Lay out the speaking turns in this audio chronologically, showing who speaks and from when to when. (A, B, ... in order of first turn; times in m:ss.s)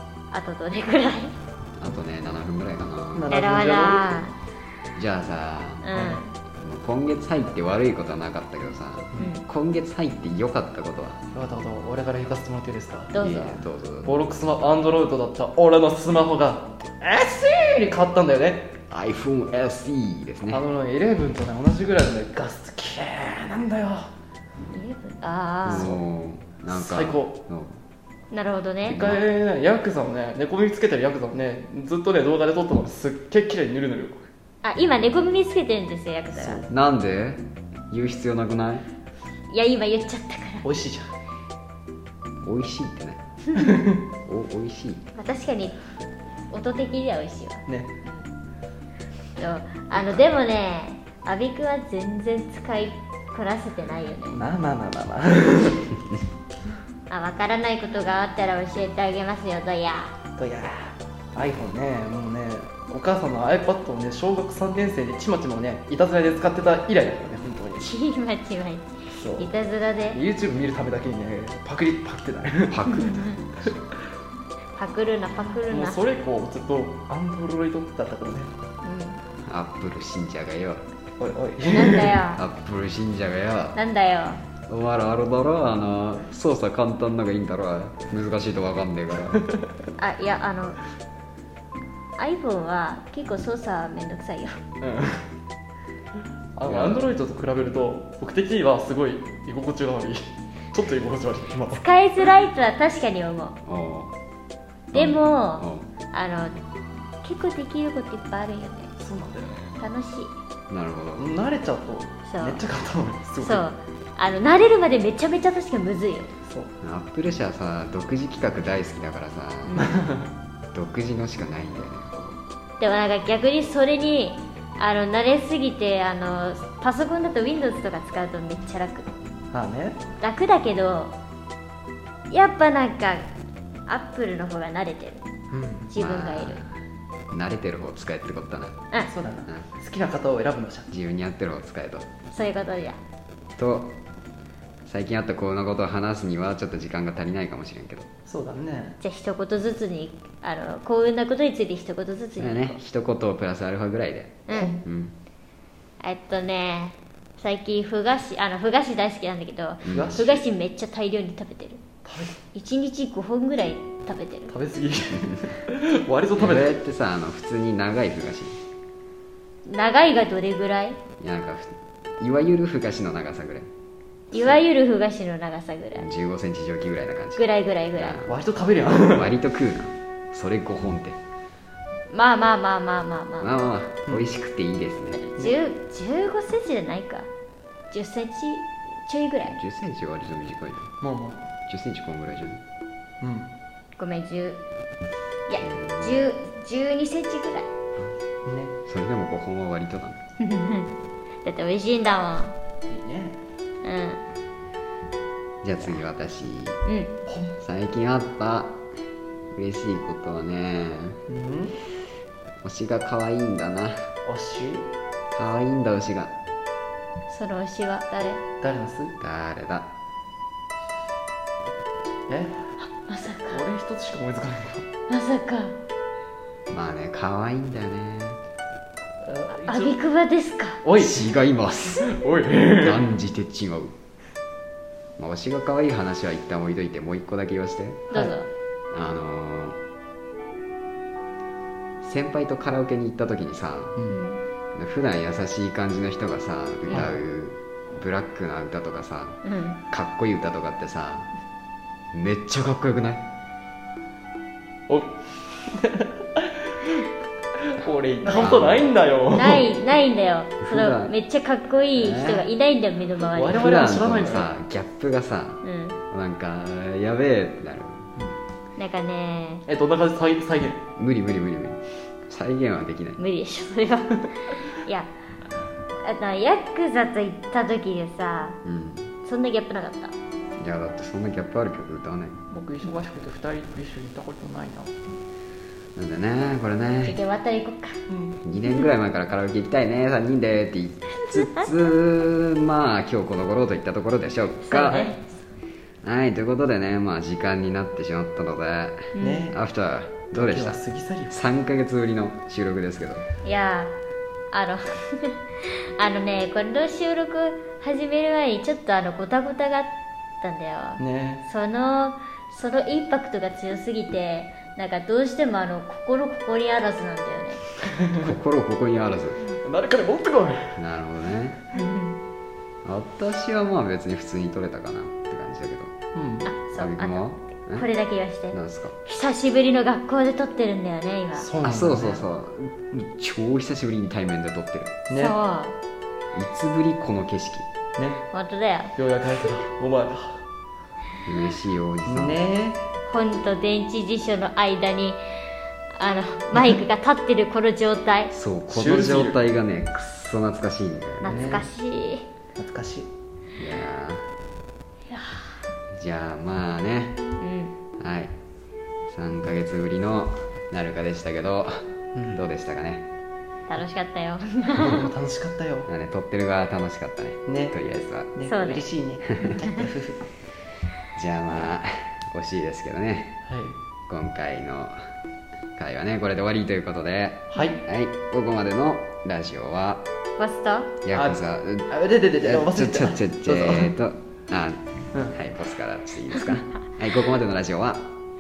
0:00.3-0:01.3 A
0:01.8-0:03.4 B
0:03.1-0:04.2 C
0:03.3-0:04.3 A
0:04.9-0:05.9 B
0:05.8-0:06.3 A
0:05.9-0:06.2 C
0:06.6-0:11.2 B
0:09.2-0:09.4 A
0:11.3-0:13.1 C
0:13.1-0:13.6 A
0:13.2-0:14.2 B
0:14.0-0:18.7 C
0:18.9-0:20.6 B
0:20.5-0:24.1 C
0:24.7-0:26.0 A
0:25.6-0:27.8 B
0:25.7-0:26.0 C
0:26.7-0:27.4 C
0:28.3-0:29.0 A
0:28.8-0:29.2 B
0:28.8-0:34.3 C
0:34.6-0:36.6 A
0:36.4-0:38.8 B
0:39.5-0:40.7 A
0:40.6-0:41.1 C
0:42.4-0:43.2 B
0:43.6-0:44.0 C
0:44.2-0:45.0 B
0:45.2-0:45.8 A
0:46.5-0:48.2 A
0:47.7-0:47.9 C
0:49.4-0:54.5 A
0:54.3-0:56.0 C
0:57.1-1:00.1 A
1:00.4-1:07.9 C
1:07.8-1:10.2 A
1:09.2-1:09.5 C
1:10.1-1:12.8 C
1:12.7-1:13.3 B
1:13.0-1:13.4 A
1:14.8-1:16.0 A
1:15.6-1:18.5 C
1:18.8-1:19.2 A
1:19.5-1:20.8 B
1:21.2-1:22.2 C
1:21.7-1:22.4 A
1:22.4-1:23.8 B
1:23.7-1:24.4 A
1:24.7-1:29.4 B
1:30.0-1:30.8 A
1:32.2-1:34.6 A
1:34.8-1:35.2 C
1:36.6-1:41.8 C
1:36.6-1:37.0 B
1:41.7-1:43.6 A
1:43.6-1:44.1 B
1:44.9-1:45.9 B
1:44.9-1:46.6 A
1:47.2-1:48.9 A
1:49.0-1:49.8 C
1:49.8-1:50.3 A
1:50.7-1:51.3 B
1:51.2-1:53.6 C
1:52.3-1:52.6 A
1:53.4-1:56.3 A
1:56.4-1:56.7 C
1:56.8-1:59.8 B
1:59.7-2:00.0 A
1:59.8-2:00.3 C
2:00.7-2:02.4 B
2:02.8-2:09.1 A
2:09.5-2:10.0 C
2:10.2-2:11.1 A
2:12.3-2:13.2 A
2:13.9-2:15.2 A
2:15.5-2:15.9 C
2:15.9-2:16.6 A
2:15.9-2:16.7 B
2:17.3-2:18.8 B
2:19.1-2:20.9 C
2:20.9-2:22.0 B
2:22.3-2:23.0 A
2:23.6-2:23.9 B
2:24.8-2:28.1 B
2:28.3-2:29.0 C
2:29.0-2:32.8 A
2:32.4-2:35.1 B
2:34.5-2:34.8 A
2:34.5-2:34.8 C
2:36.0-2:41.8 A
2:39.8-2:40.2 B
2:39.8-2:40.4 C
2:42.0-2:42.4 C
2:42.5-2:44.5 A
2:44.5-2:46.8 C
2:46.4-2:48.6 B
2:49.6-2:51.0 A
2:51.2-2:53.7 B
2:54.3-2:56.1 A
2:56.0-2:57.4 B
2:57.4-2:58.2 A
2:58.0-2:58.3 B
2:58.2-2:59.3 C
2:59.0-3:01.2 B
3:02.1-3:03.6 A
3:03.4-3:05.2 B
3:04.1-3:04.3 C
3:05.1-3:07.3 A
3:07.9-3:09.6 A
3:09.5-3:10.9 B
3:11.0-3:11.5 C
3:11.7-3:12.6 B
3:13.2-3:13.5 C
3:14.0-3:14.6 A
3:15.5-3:17.6 A
3:15.6-3:16.2 B
3:18.4-3:18.7 C
3:18.8-3:20.2 B
3:20.4-3:22.5 A
3:22.9-3:23.4 C
3:23.8-3:24.2 A
3:25.6-3:26.8 B
3:26.8-3:27.1 A
3:27.3-3:27.5 C
3:27.6-3:28.8 B
3:29.5-3:31.2 B
3:31.3-3:31.8 C
3:32.6-3:34.1 B
3:34.2-3:34.9 C
3:35.3-3:36.3 B
3:37.3-3:38.4 A
3:38.6-3:39.1 C
3:39.2-3:39.9 B
3:42.3-3:42.6 C
3:42.8-3:43.6 A
3:43.5-3:44.9 C
3:45.1-3:45.7 A
3:46.7-3:48.4 B
3:49.2-3:50.0 C
3:49.6-3:50.8 A
3:50.8-3:51.3 C
3:51.0-3:52.1 B
3:52.0-3:53.1 C
3:52.8-3:53.9 B
3:55.2-3:58.1 B
3:58.1-3:58.5 A
3:58.9-3:59.8 B
4:02.0-4:03.9 B
4:04.1-4:04.4 A
4:04.7-4:11.3 B
4:06.9-4:07.2 C
4:09.4-4:09.8 A
4:12.1-4:13.2 B
4:14.9-4:16.9 C
4:17.6-4:19.7 C
4:18.2-4:18.9 B
4:19.3-4:23.6 A
4:20.6-4:21.1 B
4:22.0-4:22.4 B
4:23.3-4:24.5 C
4:23.5-4:28.1 B
4:25.6-4:26.0 A
4:28.8-4:29.6 A
4:29.7-4:30.8 C
4:31.0-4:33.2 B
4:33.2-4:35.1 A
4:36.0-4:38.6 A
4:38.6-4:39.1 B
4:39.2-4:40.1 A
4:40.6-4:42.4 B
4:42.5-4:44.9 C
4:46.0-4:47.2 B
4:47.0-4:48.0 A
4:48.1-4:48.4 C
4:48.4-4:55.0 B
4:54.6-4:55.2 A
4:54.9-4:55.1 C
4:56.0-5:03.2 B
4:59.2-4:59.5 A
4:59.2-4:59.6 C
5:00.3-5:01.3 C
5:03.4-5:03.9 A
5:04.5-5:17.6 A
5:11.0-5:11.4 C
5:18.0-5:18.3 C
5:18.2-5:19.4 B
5:19.6-5:20.8 C
5:20.8-5:21.6 B
5:21.7-5:22.2 A
5:22.8-5:25.9 B
5:26.1-5:26.5 C
5:26.4-5:31.5 A
5:26.8-5:27.8 B
5:28.5-5:29.0 B
5:31.4-5:32.2 C
5:31.6-5:35.0 B
5:35.1-5:35.3 C
5:35.1-5:35.8 A
5:36.3-5:37.7 B
5:38.0-5:38.2 C
5:38.3-5:38.9 A
5:39.0-5:40.4 C
5:41.2-5:42.4 B
5:42.0-5:42.8 C
5:43.1-5:45.2 A
5:45.9-5:48.3 A
5:48.3-5:51.6 B
5:48.7-5:49.4 C
5:51.2-5:52.2 A
5:51.2-5:51.7 C
5:52.6-5:53.1 C
5:53.6-5:54.2 B
5:55.1-5:55.6 A
5:56.0-5:57.2 B
5:57.4-5:57.7 A
5:58.0-5:58.3 B
5:59.1-6:03.1 B
6:02.1-6:02.4 C
6:03.7-6:05.0 A
6:04.7-6:05.9 C
6:05.9-6:08.3 B
6:07.4-6:07.8 C
6:08.3-6:10.2 C
6:08.5-6:08.9 A
6:11.1-6:13.4 B
6:13.5-6:13.8 C
6:14.1-6:15.0 B
6:15.8-6:20.0 B
6:20.4-6:20.9 A
6:21.0-6:21.9 B
6:21.1-6:23.9 C
6:22.4-6:28.0 B